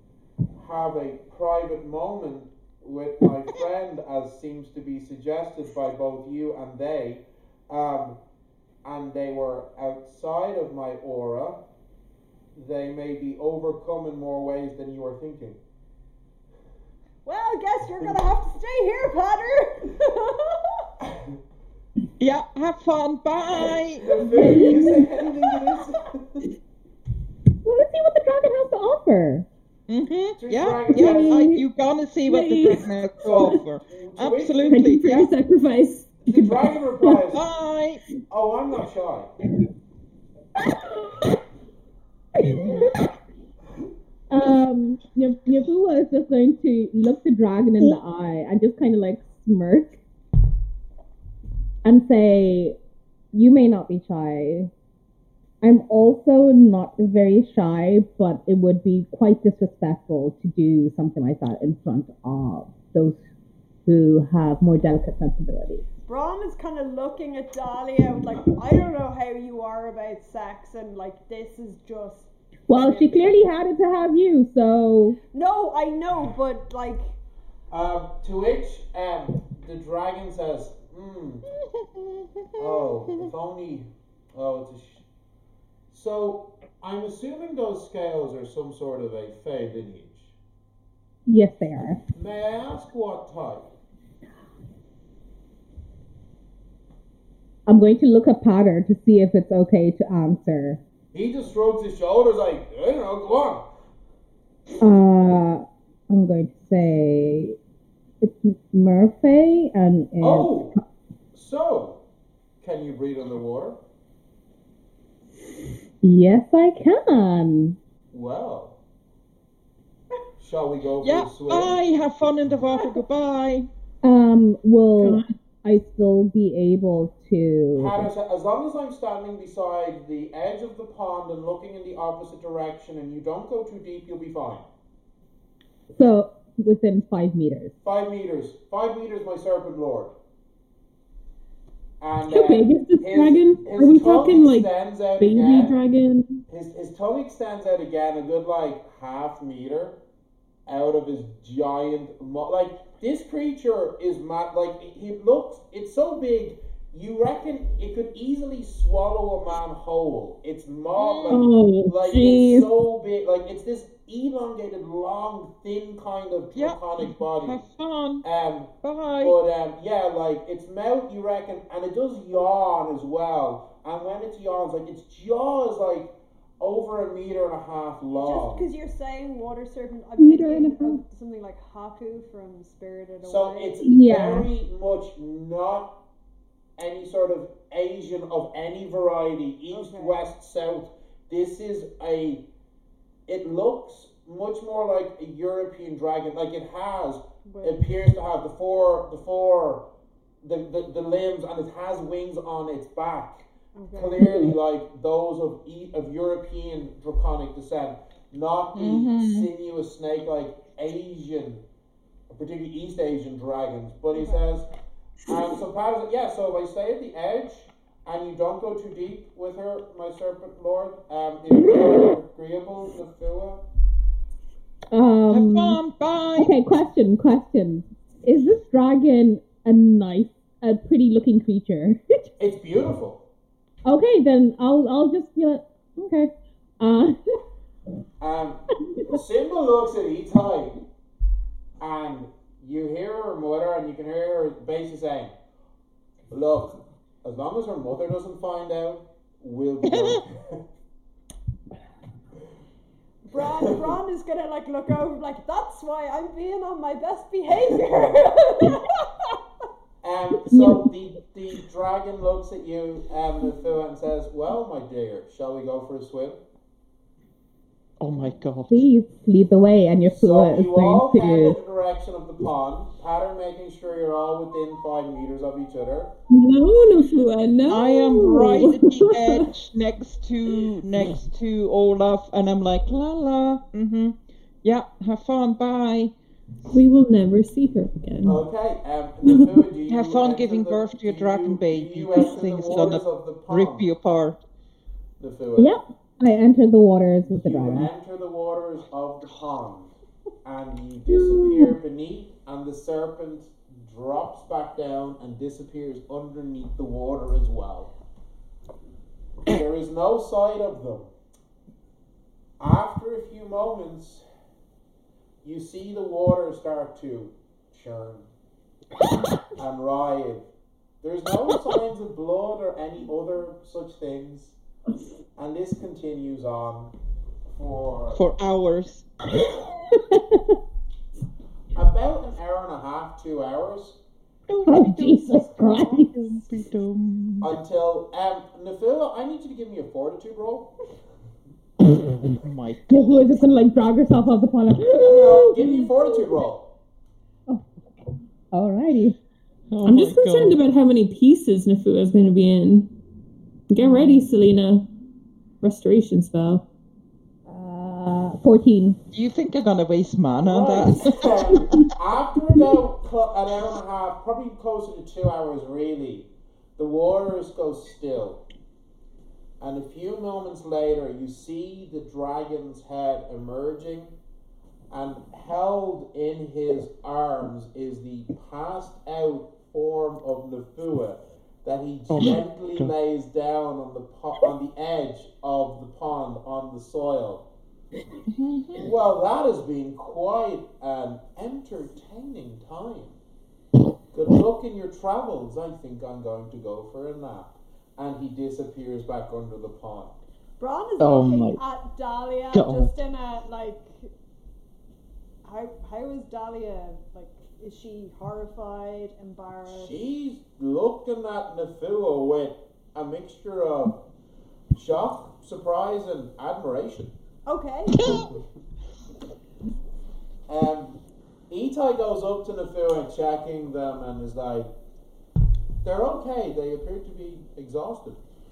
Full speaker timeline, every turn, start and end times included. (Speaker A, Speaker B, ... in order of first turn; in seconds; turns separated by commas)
Speaker A: 0.6-8.2, Speaker A: 8.8-11.6, Speaker A: 12.5-15.6, Speaker B: 17.2-20.8, Speaker C: 22.2-24.0, Speaker A: 23.9-26.4, Speaker D: 24.4-24.8, Speaker D: 27.6-29.4, Speaker C: 29.9-35.3, Speaker A: 30.4-31.5, Speaker E: 30.9-31.6, Speaker E: 32.2-33.6, Speaker A: 33.2-34.9, Speaker E: 34.7-37.1, Speaker A: 36.2-37.4, Speaker C: 37.3-38.0, Speaker A: 38.3-39.3, Speaker D: 42.4-43.0, Speaker D: 44.3-50.0, Speaker D: 51.8-52.8, Speaker D: 53.3-54.7, Speaker D: 55.6-63.2, Speaker D: 63.9-65.8, Speaker B: 66.0-73.1, Speaker D: 72.7-75.2, Speaker B: 75.3-77.2, Speaker A: 77.7-81.4, Speaker C: 81.5-83.2, Speaker A: 82.6-85.0, Speaker A: 85.9-90.3, Speaker D: 91.3-92.0, Speaker A: 92.1-93.7, Speaker D: 97.7-100.8, Speaker A: 101.1-103.7, Speaker D: 104.8-107.5, Speaker D: 108.2-110.6, Speaker A: 110.2-110.8, Speaker A: 111.3-112.0, Speaker A: 112.6-113.8, Speaker D: 116.0-117.8, Speaker A: 118.1-118.8, Speaker A: 120.4-121.9, Speaker C: 121.0-123.7, Speaker D: 124.0-128.1, Speaker E: 125.0-125.3, Speaker A: 127.8-134.7, Speaker D: 135.9-137.7, Speaker A: 137.8-140.1, Speaker A: 142.0-145.8, Speaker E: 142.3-146.4, Speaker A: 146.5-150.0, Speaker A: 150.7-167.7, Speaker C: 160.9-161.4, Speaker E: 161.3-162.7, Speaker C: 166.5-168.2, Speaker A: 168.2-178.7, Speaker C: 168.8-169.3, Speaker B: 178.2-183.8, Speaker E: 180.2-181.0, Speaker A: 183.2-186.0, Speaker D: 183.8-184.5, Speaker A: 186.8-192.4, Speaker B: 189.7-190.2, Speaker A: 193.3-199.8, Speaker B: 197.4-197.8, Speaker A: 200.4-211.6, Speaker B: 203.7-204.2, Speaker C: 208.7-209.5, Speaker A: 212.3-214.7, Speaker B: 214.1-214.4, Speaker A: 215.3-223.6, Speaker D: 224.9-225.8, Speaker C: 225.3-226.5, Speaker D: 226.3-232.3, Speaker A: 232.4-233.2, Speaker D: 233.8-237.2, Speaker A: 238.2-240.8, Speaker A: 241.8-245.3, Speaker A: 246.3-250.6, Speaker C: 249.9-250.2, Speaker B: 253.3-259.3, Speaker A: 253.3-253.9, Speaker A: 257.8-258.1, Speaker A: 260.0-266.4, Speaker D: 260.5-260.8, Speaker C: 268.0-268.9, Speaker D: 268.7-271.6, Speaker A: 270.1-276.1, Speaker E: 276.3-279.5, Speaker C: 277.7-286.1, Speaker E: 286.7-288.4, Speaker A: 288.2-293.9, Speaker C: 289.9-294.4, Speaker A: 295.2-295.7, Speaker D: 295.6-297.9, Speaker A: 297.3-299.9, Speaker A: 300.4-307.9, Speaker A: 309.4-311.1, Speaker A: 312.6-314.2, Speaker A: 315.4-318.3, Speaker A: 319.6-320.5, Speaker A: 321.0-324.6, Speaker A: 325.4-326.9, Speaker A: 327.5-328.2, Speaker C: 328.1-329.1, Speaker D: 329.8-330.5, Speaker A: 331.7-334.0, Speaker C: 334.5-337.5, Speaker D: 334.6-336.1, Speaker A: 337.4-340.7, Speaker C: 342.4-343.4, Speaker D: 342.9-346.2, Speaker A: 344.9-346.7, Speaker D: 347.5-349.1, Speaker C: 349.7-350.6, Speaker E: 349.8-352.9, Speaker E: 353.7-354.9, Speaker E: 355.6-356.6, Speaker D: 357.5-359.0, Speaker C: 359.1-361.3, Speaker A: 360.4-368.4, Speaker A: 369.6-374.1, Speaker A: 374.9-387.4, Speaker C: 382.1-382.9, Speaker C: 388.3-388.9, Speaker A: 388.8-393.1, Speaker A: 394.1-400.1, Speaker B: 400.6-404.1, Speaker C: 401.0-401.6, Speaker C: 402.5-402.9, Speaker B: 405.4-409.9, Speaker A: 409.7-414.0, Speaker A: 414.7-417.1, Speaker B: 417.4-418.2, Speaker C: 417.9-418.3, Speaker A: 418.1-418.4, Speaker A: 420.5-421.0, Speaker A: 421.5-424.7, Speaker A: 425.8-428.2